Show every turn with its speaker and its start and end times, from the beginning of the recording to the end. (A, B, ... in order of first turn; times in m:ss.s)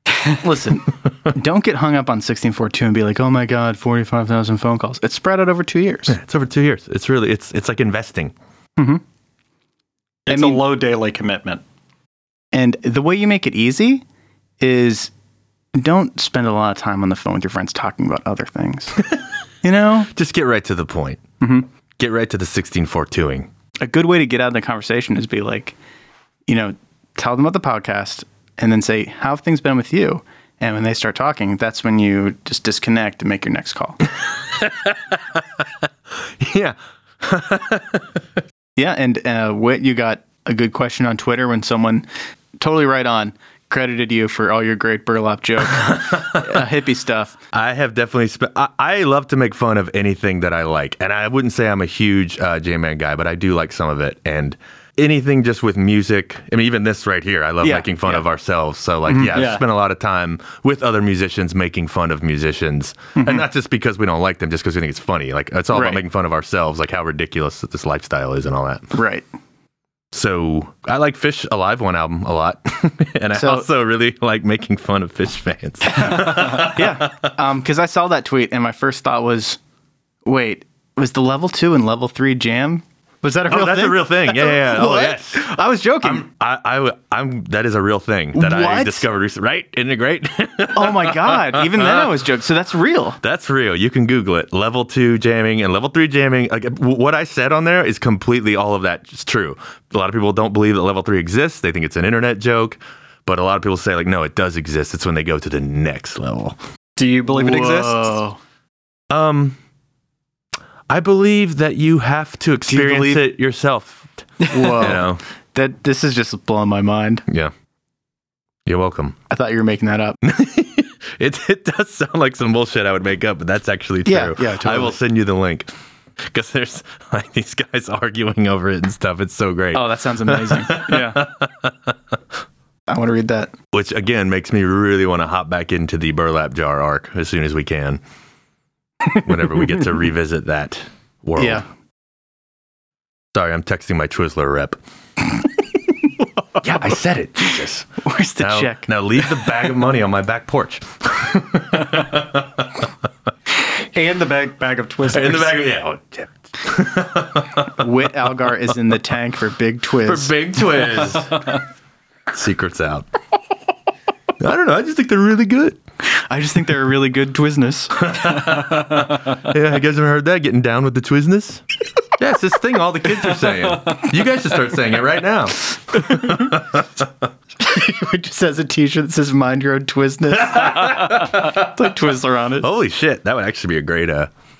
0:00.4-0:06.2 A
0:06.1-0:08.3 B
0:10.3-0:11.6 C
0:10.3-0:10.6 A
0:12.5-0:14.0 A
0:14.6-0:15.1 A
0:15.8-0:19.0 A
0:19.6-0:20.1 A
0:20.1-0:21.2 B
0:21.4-0:21.7 A
0:22.0-0:23.5 B
0:23.8-0:25.7 A
0:26.5-0:34.0 A
0:34.5-0:38.2 B
0:38.8-0:42.1 A
0:42.6-0:47.4 A
0:45.7-0:46.6 B
0:47.5-1:08.9 B
0:57.6-0:58.2 A
0:59.1-0:59.4 A
0:59.3-0:59.6 C
1:03.2-1:03.4 A
1:05.7-1:06.0 A
1:08.9-1:09.2 A
1:10.1-1:17.1 B
1:13.4-1:13.7 A
1:16.1-1:19.6 A
1:20.2-1:26.2 A
1:23.5-1:25.4 B
1:26.0-1:32.2 B
1:28.3-1:29.0 A
1:30.7-1:33.2 A
1:33.2-1:46.6 B
1:47.0-1:48.2 C
1:47.3-1:48.4 A
1:49.1-1:49.6 B
1:50.9-1:55.2 B
1:52.7-1:53.3 A
1:54.4-1:57.2 A
1:58.6-1:59.2 B
1:59.3-2:00.2 A
2:00.2-2:05.7 B
2:04.0-2:05.0 A
2:06.3-2:11.9 B
2:09.7-2:11.3 A
2:12.9-2:13.5 A
2:13.7-2:18.0 B
2:19.1-2:21.6 B
2:21.4-2:21.6 A
2:23.3-2:24.8 B
2:26.6-2:27.9 B
2:28.0-2:28.9 A
2:28.4-2:32.9 B
2:33.9-2:35.6 C
2:35.1-2:37.8 B
2:37.7-2:40.4 A
2:40.0-2:41.4 B
2:42.3-2:43.1 B
2:44.4-2:45.8 B
2:46.3-2:48.3 A
2:48.0-2:51.6 B
2:52.2-2:57.1 B
2:53.6-2:54.0 C
2:56.0-2:56.6 A
2:57.6-3:02.7 A
3:00.3-3:01.7 B
3:02.6-3:04.3 B